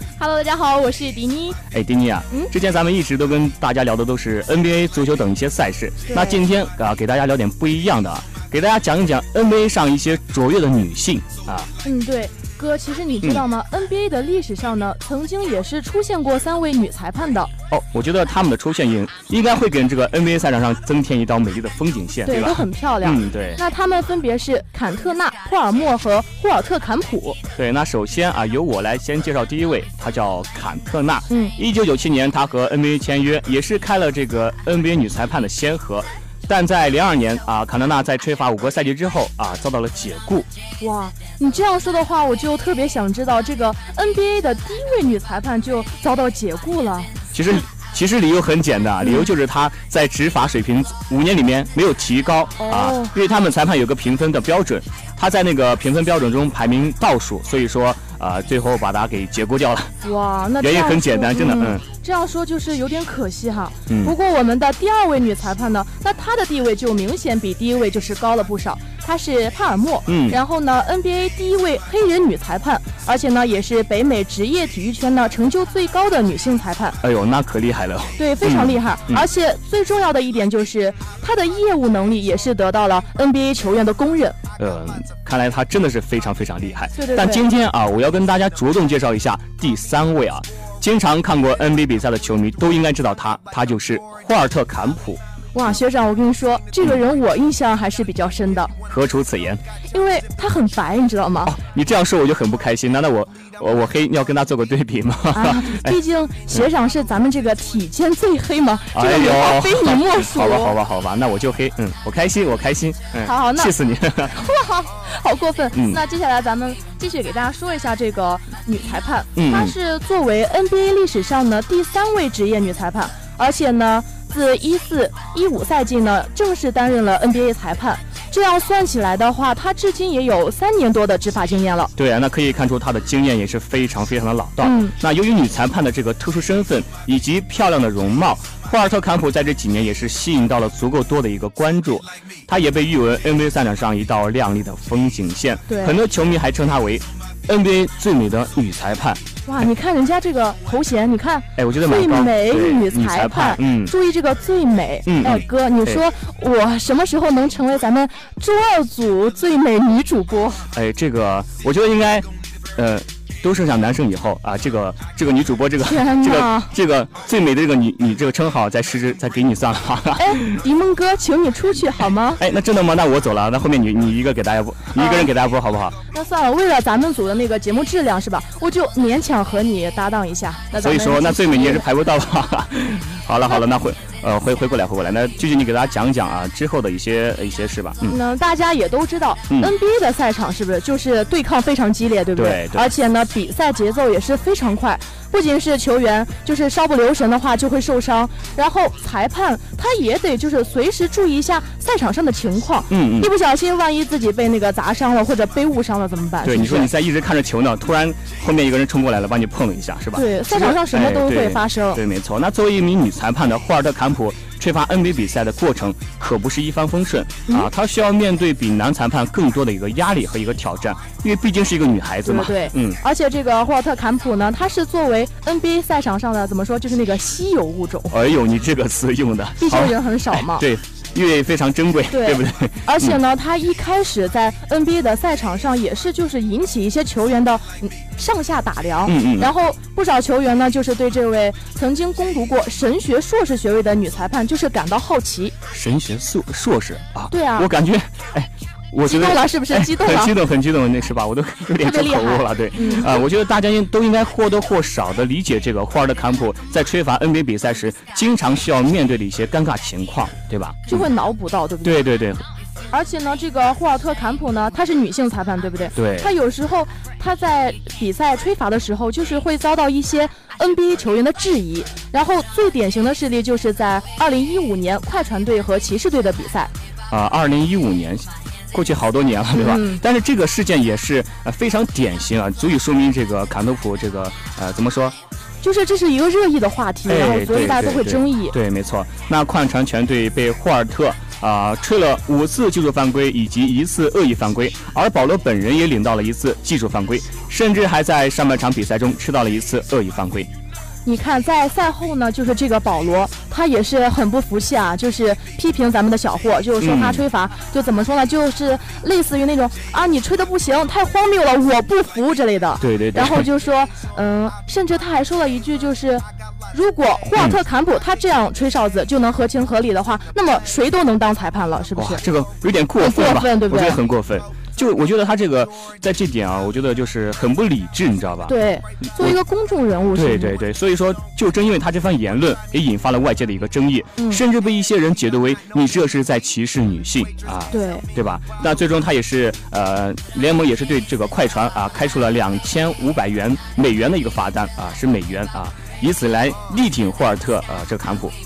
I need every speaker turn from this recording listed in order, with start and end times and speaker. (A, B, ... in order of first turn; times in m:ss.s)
0:00.2-0:01.6 A
0:01.7-0:11.7 B
0:06.1-0:06.4 A
0:11.8-0:17.5 A
0:17.7-0:23.6 B
0:22.2-0:27.4 A
0:27.6-0:40.5 B
0:31.3-0:31.5 A
0:40.8-0:47.1 A
0:47.3-0:59.9 B
0:49.0-0:49.3 A
0:52.6-0:53.1 A
1:00.0-1:17.0 A
1:00.6-1:01.8 B
1:03.9-1:04.1 B
1:10.1-1:10.4 B
1:17.0-1:19.3 B
1:18.2-1:24.4 A
1:24.6-1:35.2 B
1:27.0-1:27.4 A
1:35.5-1:38.8 A
1:38.9-1:39.6 B
1:39.9-1:41.6 A
1:41.4-1:46.0 B
1:45.3-1:50.8 A
1:48.9-1:54.4 B
1:53.2-1:53.7 A
1:54.3-2:11.9 A
1:55.7-1:56.0 B
1:59.4-1:59.7 B
2:12.0-2:29.2 B
2:14.6-2:14.9 A
2:25.7-2:26.0 A
2:29.4-2:40.6 A
2:31.6-2:33.9 B
2:35.0-2:36.0 B
2:40.7-2:50.6 B
2:45.8-2:46.7 A
2:50.2-2:52.4 A
2:52.4-2:56.0 B
2:54.9-2:55.3 A
2:56.1-3:01.8 A
3:00.7-3:08.2 B
3:08.0-3:26.9 A
3:12.4-3:12.9 B
3:22.9-3:23.3 B
3:26.4-3:43.0 B
3:30.1-3:32.0 A
3:42.2-3:48.2 A
3:48.1-3:53.2 B
3:49.6-3:50.6 A
3:52.1-4:05.5 A
3:59.0-3:59.5 B
4:05.7-4:21.0 B
4:07.3-4:07.7 A
4:09.0-4:10.3 A
4:11.8-4:13.2 A
4:20.9-4:22.1 A
4:21.8-4:22.4 B
4:22.9-4:36.7 A
4:26.0-4:26.3 B
4:37.1-4:45.1 B
4:39.5-4:40.0 A
4:45.6-4:48.6 A
4:47.1-5:00.5 B
5:01.0-5:22.2 A
5:06.8-5:07.2 B
5:12.8-5:13.4 B
5:22.0-5:29.4 B
5:23.0-5:24.0 A
5:28.5-5:30.6 A
5:30.1-5:48.3 B
5:34.2-5:34.4 A
5:37.7-5:38.1 A